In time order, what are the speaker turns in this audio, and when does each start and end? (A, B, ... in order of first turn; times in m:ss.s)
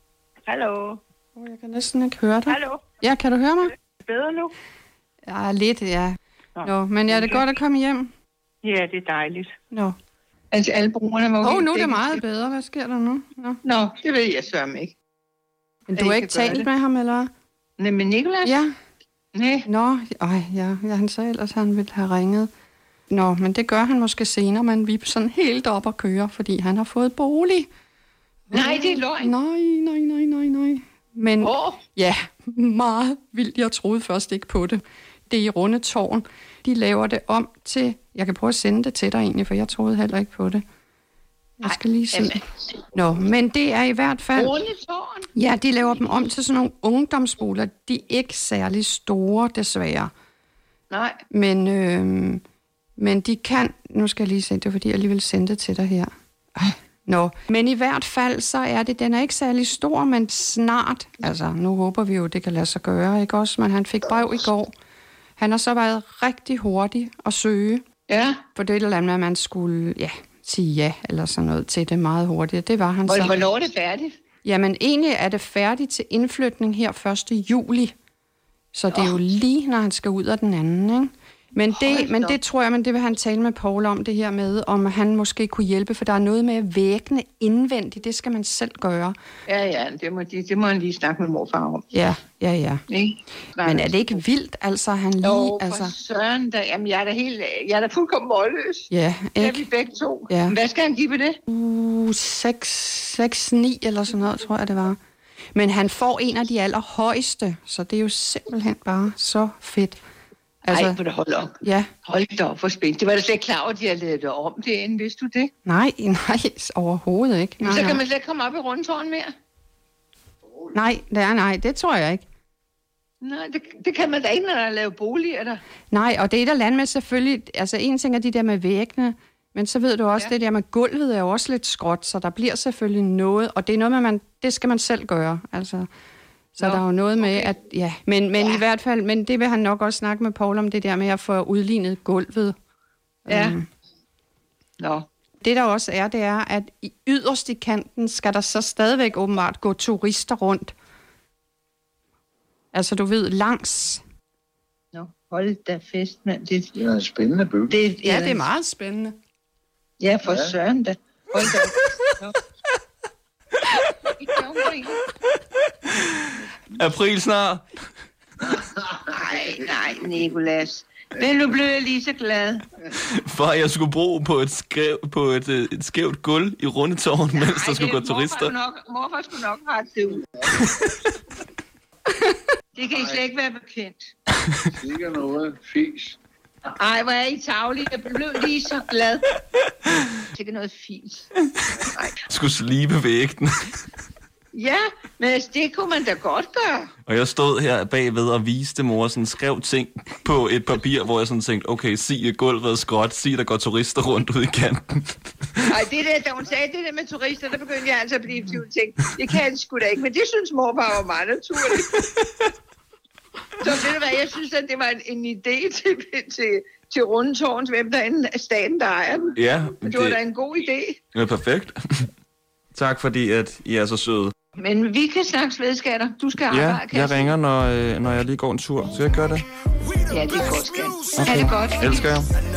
0:00.4-0:01.0 A
0:01.4-0:03.7 B
0:02.5-0:02.8 A
0:04.0-0:04.5 A
0:05.3-0:08.1 B
0:06.6-0:07.4 A
0:08.6-0:09.5 A
0:09.7-0:10.0 B
0:10.5-0:12.2 A
0:11.4-0:13.6 B
0:13.6-0:15.0 A
0:15.9-0:17.3 B
0:16.0-0:16.7 A
0:17.8-0:18.7 A
0:18.4-0:18.7 B
0:19.4-0:19.7 A
0:19.7-0:22.5 B
0:23.1-0:27.7 B
0:28.5-0:40.6 B
0:28.5-0:29.3 A
0:31.4-0:31.8 A
0:41.6-0:42.4 B
0:41.6-0:42.4 A
0:42.9-0:44.5 B
0:44.4-0:45.3 A
0:45.4-0:50.1 B
0:50.9-0:51.2 A
0:51.3-0:52.4 B
0:53.0-1:04.7 B
1:05.4-1:07.8 B
1:08.1-1:08.4 A
1:08.6-1:13.3 B
1:13.1-1:14.2 A
1:14.4-1:18.0 B
1:18.7-1:29.2 B
1:18.9-1:19.2 A
1:21.7-1:22.4 A
1:29.5-1:31.9 A
1:31.9-1:32.8 B
1:32.9-1:34.2 A
1:33.6-1:35.9 B
1:35.2-1:41.4 A
1:38.9-1:39.7 B
1:40.3-1:40.6 B
1:41.5-1:45.0 B
1:45.5-1:50.0 B
1:50.7-1:51.0 B
1:50.7-1:55.5 A
1:51.6-1:51.9 B
1:55.6-1:58.0 B
1:57.6-1:59.3 A
2:00.7-2:02.2 B
2:03.2-2:05.6 A
2:05.9-2:15.9 B
2:16.6-2:22.6 B
2:16.6-2:17.5 A
2:18.4-2:18.6 A
2:23.3-2:23.7 B
2:23.3-2:23.6 A
2:24.8-2:25.1 A
2:25.4-2:30.7 B
2:32.7-2:34.0 B
2:34.9-2:36.8 A
2:36.8-2:37.8 C
2:37.7-2:38.5 A
2:38.0-2:39.2 B
2:40.0-2:42.3 A
2:40.2-2:40.6 C
2:44.2-2:45.0 A
2:46.8-2:47.6 D
2:49.1-2:52.7 A
2:49.2-2:49.6 C
2:53.1-2:58.5 D
2:57.3-3:00.2 A
3:02.8-3:04.1 A
3:02.9-3:03.3 C
3:04.8-3:06.2 C
3:06.8-3:09.3 A
3:10.3-3:11.3 A
3:12.3-3:13.7 D
3:14.5-3:16.9 A
3:17.1-3:25.2 D
3:25.7-3:32.0 A
3:33.6-3:41.0 A
3:39.4-3:40.2 D
3:41.1-3:42.1 D
3:42.7-3:44.3 D
3:44.6-3:47.3 A
3:46.5-3:49.5 D
3:50.1-3:52.2 A
3:51.2-3:52.3 D